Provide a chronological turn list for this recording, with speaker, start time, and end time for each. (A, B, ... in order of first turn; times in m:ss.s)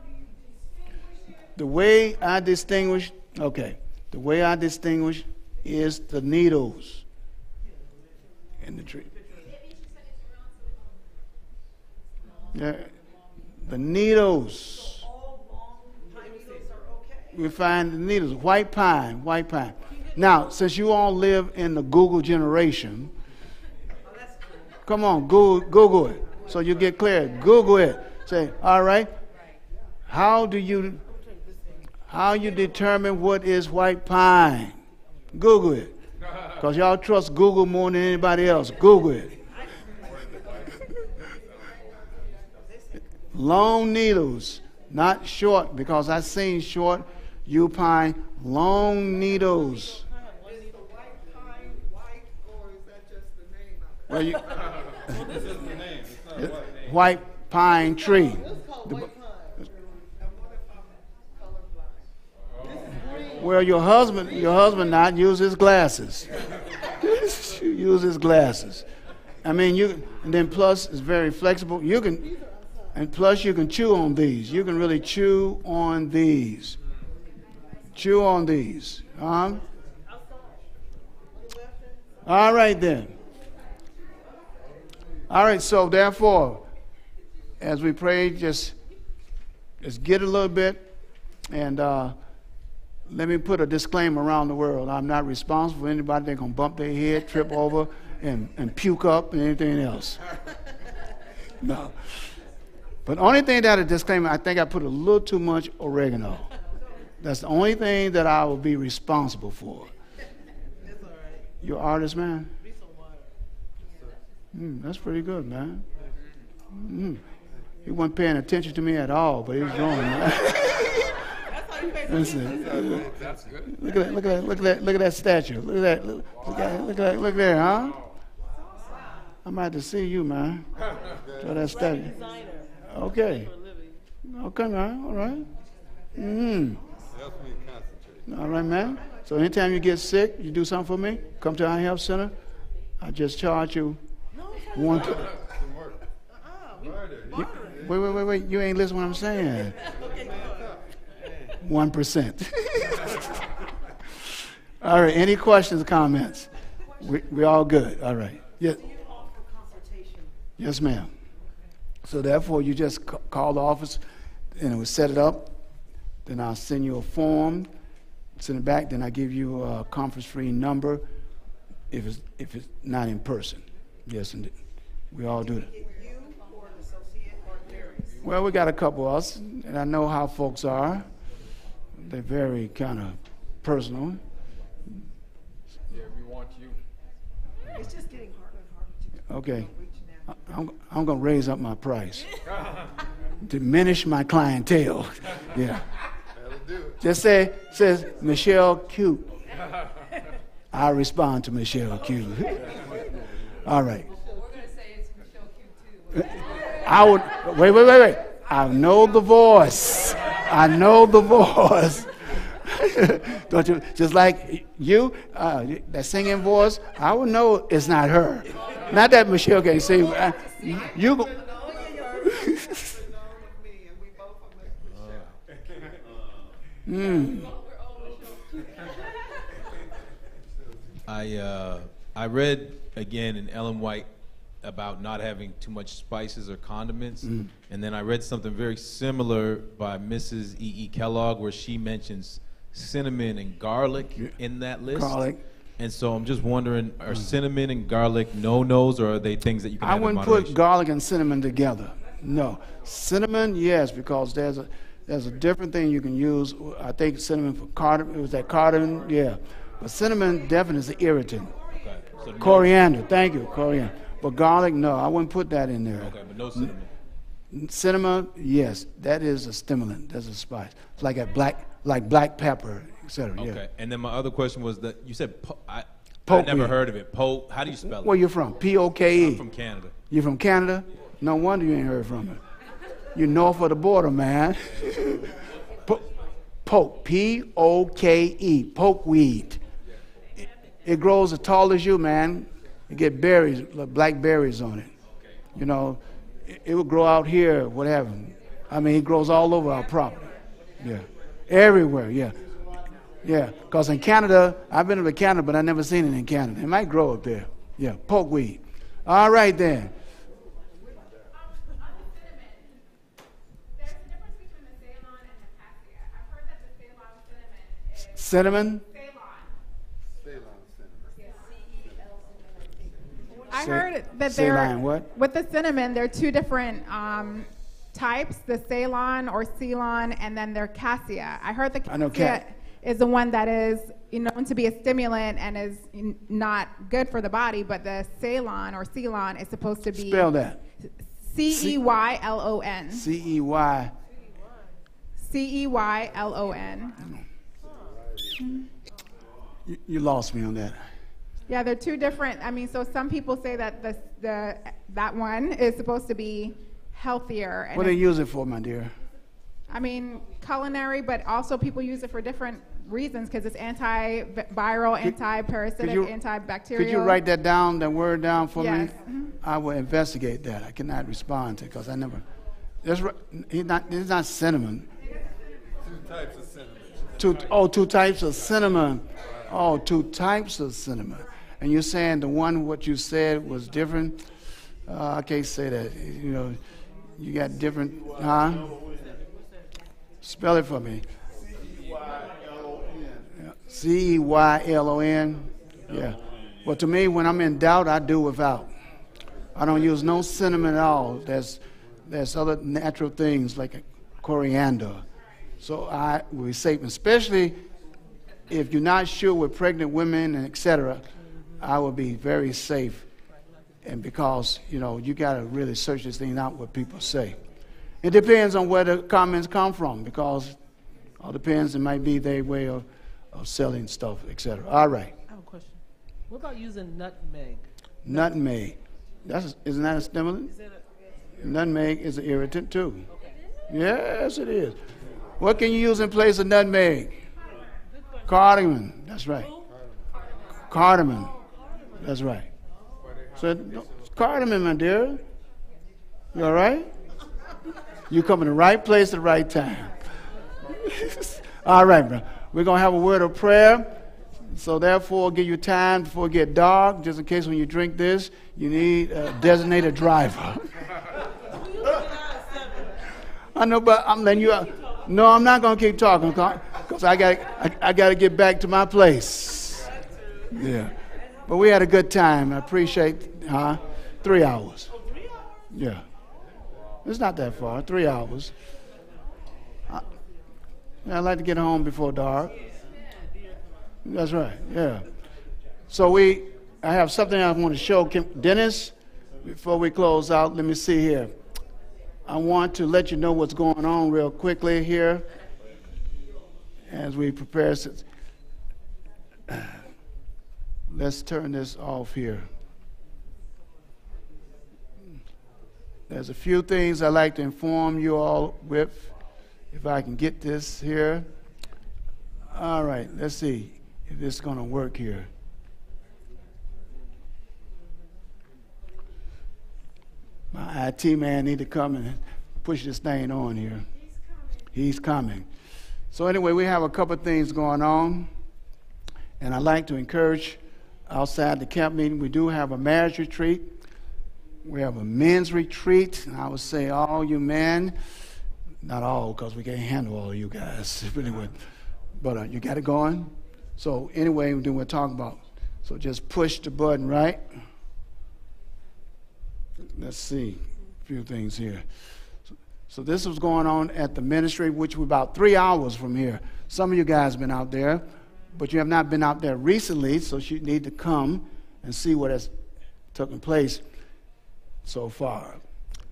0:01.6-0:07.0 A
0:08.6-0:09.1 A
0:12.5-0:12.9 A
0:13.6-0:15.0 A
0:17.3-0:23.1 A
0:24.9-0:29.1 A
0:30.1-0:31.0 A
0:32.1-0:34.8 A
0:35.3-0:35.9 A
0:36.6-0:39.4 A
0:43.3-0:50.0 A
0:50.5-0:54.3 B
0:54.1-0:54.5 A
0:55.4-0:56.8 C
0:56.4-0:59.1 A
0:58.4-0:59.5 D
1:00.2-1:02.0 B
1:02.6-1:02.9 E
1:03.4-1:06.4 A
1:07.0-1:08.8 A
1:09.4-1:12.3 A
1:12.9-1:16.8 A
1:17.9-1:19.6 A
1:22.2-1:23.1 A
1:25.3-1:26.6 A
1:27.6-1:28.8 A
1:29.8-1:30.9 A
1:31.5-1:32.2 A
1:33.1-1:40.2 A
1:41.6-1:42.0 A
1:43.1-1:46.5 A
1:47.2-1:49.9 A
1:50.8-1:51.5 D
1:51.6-1:52.5 A
1:52.6-1:53.3 D
1:54.5-1:55.8 A
1:56.7-1:57.2 A
1:57.8-2:01.2 A
2:01.7-2:02.6 D
2:02.1-2:03.1 A
2:02.5-2:03.4 C
2:03.1-2:03.7 E
2:03.7-2:08.0 A
2:06.6-2:07.0 E
2:07.7-2:08.1 E
2:09.4-2:10.6 A
2:11.4-2:12.1 A
2:11.6-2:12.7 D
2:12.9-2:13.5 A
2:13.4-2:13.9 D
2:14.3-2:15.5 A
2:16.2-2:16.8 A
2:17.1-2:18.2 C
2:18.3-2:22.3 A
2:23.0-2:24.0 A
2:24.4-2:25.2 D
2:24.7-2:25.2 A
2:25.6-2:26.0 C
2:26.4-2:27.7 D
2:26.8-2:27.9 C
2:27.3-2:29.8 A
2:30.1-2:30.5 D
2:31.6-2:33.4 A
2:34.8-2:36.5 A
2:37.0-2:38.8 A
2:40.6-2:41.1 A
2:42.0-2:44.0 A
2:44.6-2:45.5 A
2:46.3-2:47.7 A
2:48.4-2:51.0 A
2:51.9-2:54.5 A
2:55.1-2:55.7 A
2:56.4-2:56.7 B
2:58.2-3:01.1 A
3:02.0-3:04.2 A
3:05.9-3:06.8 E
3:07.8-3:08.9 B
3:09.3-3:09.7 A
3:09.7-3:09.9 B
3:10.4-3:12.3 A
3:13.4-3:15.9 A
3:16.4-3:17.0 C
3:17.0-3:19.3 A
3:20.7-3:22.9 A
3:23.6-3:24.1 A
3:26.1-3:41.4 A
3:41.4-3:45.2 B
3:42.3-3:42.8 A
3:46.9-3:47.5 A
3:51.1-3:54.1 F
3:54.6-4:05.2 F
4:04.9-4:05.4 A
4:05.8-4:10.6 F
4:09.8-4:21.6 A
4:21.8-4:22.7 F
4:22.4-4:26.7 A
4:26.0-4:26.9 F
4:27.5-4:33.6 A
4:33.4-4:38.2 F
4:36.3-4:36.8 A
4:37.7-4:39.4 A
4:39.1-4:40.0 F
4:40.1-4:42.4 A
4:43.2-4:45.3 A
4:46.6-4:49.6 A
4:50.8-4:54.9 A
4:55.6-5:02.4 A
5:03.2-5:09.9 A
5:18.1-5:18.8 A
5:20.2-5:21.1 C
5:23.5-5:40.3 G
5:23.5-5:25.1 A
5:31.9-5:32.4 A
5:39.9-5:40.6 A
5:41.2-5:43.1 G
5:41.5-5:41.7 A
5:42.9-5:43.9 A
5:44.3-5:44.7 D
5:45.2-5:47.0 G
5:47.6-5:48.0 D
5:49.7-5:50.8 A
5:51.5-5:58.0 G
5:57.7-5:58.9 A
5:59.7-6:07.2 G
6:05.8-6:06.1 A
6:06.7-6:12.2 A
6:08.6-6:09.3 G
6:12.8-6:14.9 A
6:15.8-6:17.4 C
6:17.2-6:24.2 A
6:24.9-6:26.6 A
6:27.2-6:28.7 A
6:30.2-6:31.0 A
6:33.4-6:38.7 A
6:39.6-6:45.0 A
6:45.6-6:47.6 A
6:48.5-6:51.1 A
6:51.6-6:53.1 A
6:53.8-6:57.4 A
6:58.0-7:00.6 A
7:01.2-7:05.1 A
7:05.3-7:07.7 D
7:08.0-7:10.5 A
7:10.5-7:10.8 D
7:11.4-7:13.1 A
7:13.1-7:13.4 D
7:13.7-7:14.8 A
7:15.4-7:17.2 A
7:18.3-7:19.5 A
7:20.7-7:21.3 A
7:22.0-7:22.5 A
7:23.4-7:25.2 A
7:26.3-7:26.9 A
7:28.1-7:29.9 A
7:30.8-7:33.9 A
7:34.5-7:40.7 A
7:41.9-7:42.9 D
7:43.6-7:49.9 A
7:50.5-7:50.9 A
7:51.5-7:54.9 A
7:55.0-7:55.5 D
7:55.7-7:56.0 A
7:57.0-7:58.5 A
8:01.0-8:02.6 A
8:04.0-8:05.1 A
8:05.9-8:11.3 A
8:12.3-8:15.2 A
8:16.9-8:18.0 A
8:19.5-8:19.8 A
8:20.9-8:22.5 A
8:26.1-8:29.1 A
8:29.7-8:31.3 A
8:32.5-8:35.3 A
8:40.5-8:43.9 A
8:44.7-8:45.4 A
8:46.1-8:48.3 A
8:49.4-8:53.7 A
8:54.6-8:58.0 A
8:58.8-9:01.6 A
9:02.2-9:07.4 A
9:09.9-9:11.8 A
9:12.9-9:22.5 A
9:23.1-9:23.8 A
9:24.8-9:25.6 A